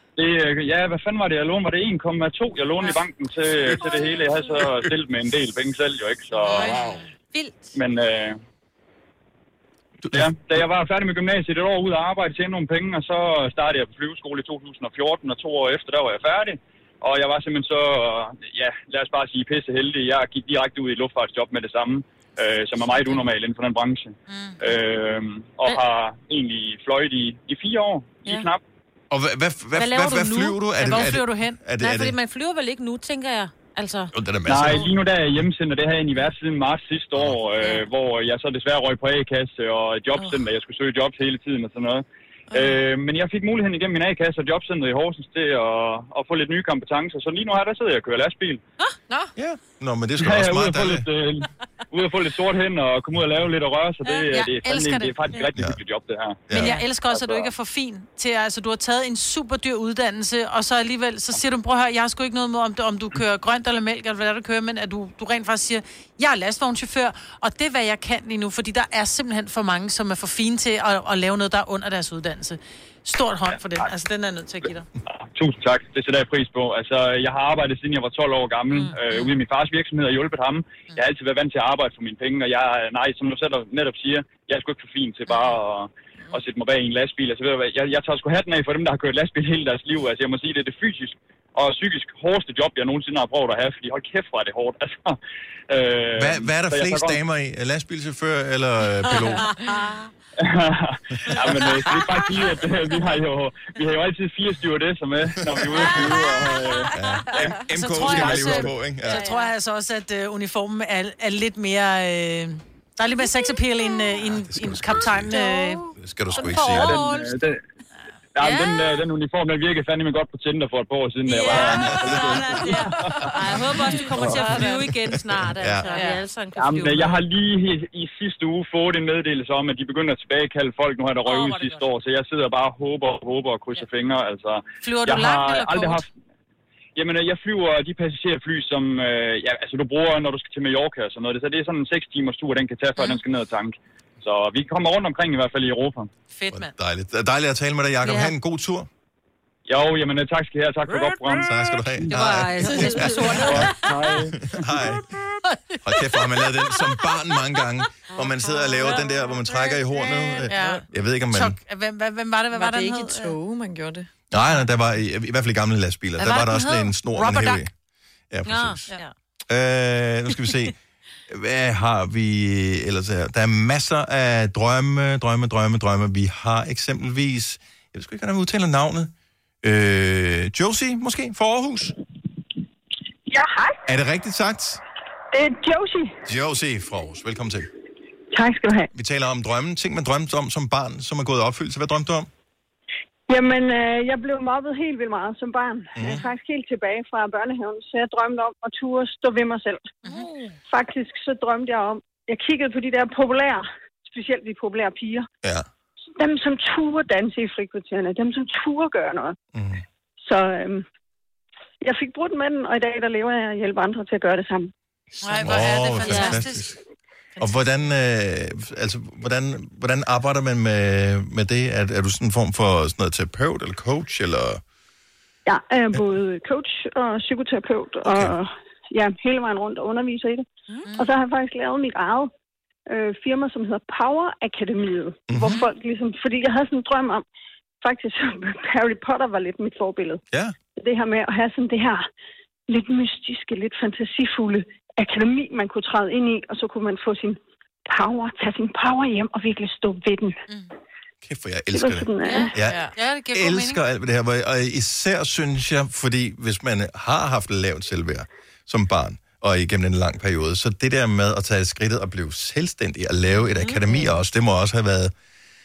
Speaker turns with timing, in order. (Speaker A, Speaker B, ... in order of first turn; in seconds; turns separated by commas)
Speaker A: 0.2-6.7, Speaker B: 4.6-4.9, Speaker C: 6.4-7.6, Speaker D: 6.5-7.0, Speaker A: 7.7-8.4, Speaker B: 10.0-10.6, Speaker A: 10.1-28.6, Speaker D: 24.3-24.6, Speaker B: 29.1-32.1, Speaker C: 29.8-31.1, Speaker D: 30.8-31.6, Speaker C: 31.8-34.1, Speaker B: 34.1-34.9, Speaker A: 34.5-48.6, Speaker C: 37.6-37.9, Speaker E: 42.5-42.8, Speaker B: 49.4-51.1, Speaker A: 50.2-56.4, Speaker D: 54.0-55.5, Speaker B: 56.5-56.8, Speaker D: 56.5-74.9, Speaker A: 57.1-57.5, Speaker A: 75.3-95.2, Speaker D: 78.7-79.2, Speaker A: 95.7-97.2, Speaker B: 96.1-99.5, Speaker D: 99.6-99.9, Speaker A: 100.4-106.9, Speaker B: 101.3-101.6, Speaker B: 105.3-105.9, Speaker B: 106.9-109.2, Speaker D: 107.5-117.3, Speaker A: 108.1-108.6, Speaker C: 109.1-109.5, Speaker B: 114.2-115.4, Speaker C: 115.3-115.7, Speaker B: 115.9-117.0, Speaker A: 116.7-117.6, Speaker A: 118.3-122.8, Speaker C: 118.4-119.0, Speaker D: 121.3-124.8, Speaker C: 121.5-127.2, Speaker B: 121.5-122.4, Speaker B: 123.7-125.9, Speaker A: 126.5-136.1, Speaker D: 131.3-131.8, Speaker C: 131.3-131.8, Speaker D: 134.8-136.0, Speaker A: 136.9-146.1, Speaker D: 146.3-146.7, Speaker B: 146.5-148.9, Speaker C: 148.0-148.3, Speaker A: 149.7-151.5, Speaker B: 151.4-155.0, Speaker C: 152.1-153.8, Speaker D: 152.8-153.6, Speaker A: 153.5-154.3, Speaker B: 155.8-161.6, Speaker C: 158.1-159.0, Speaker D: 160.5-163.3, Speaker E: 160.5-160.8, Speaker E: 162.5-164.1, Speaker B: 164.3-167.7, Speaker D: 166.2-167.6, Speaker B: 168.3-168.9, Speaker C: 168.4-169.1, Speaker B: 169.5-170.7, Speaker B: 171.3-181.9, Speaker F: 183.3-183.8, Speaker B: 183.8-184.8, Speaker F: 185.3-186.2, Speaker B: 186.2-187.7, Speaker F: 188.3-188.9, Speaker B: 188.9-192.3, Speaker F: 193.3-199.9, Speaker B: 195.9-196.2, Speaker D: 200.0-200.4, Speaker F: 200.7-205.3, Speaker B: 205.4-205.7, Speaker F: 206.2-209.3, Speaker B: 209.5-209.8, Speaker F: 210.2-210.8, Speaker F: 211.8-214.7, Speaker D: 215.2-216.7, Speaker B: 215.2-216.8, Speaker C: 216.0-216.4, Speaker B: 217.4-224.6, Speaker F: 225.4-232.3, Speaker B: 228.0-228.3, Speaker F: 232.9-237.2, Speaker B: 235.3-235.6, Speaker F: 237.8-240.2, Speaker F: 240.8-242.1, Speaker F: 242.7-250.4, Speaker B: 251.2-265.1, Speaker F: 251.7-252.5, Speaker D: 252.2-253.8, Speaker E: 252.6-252.9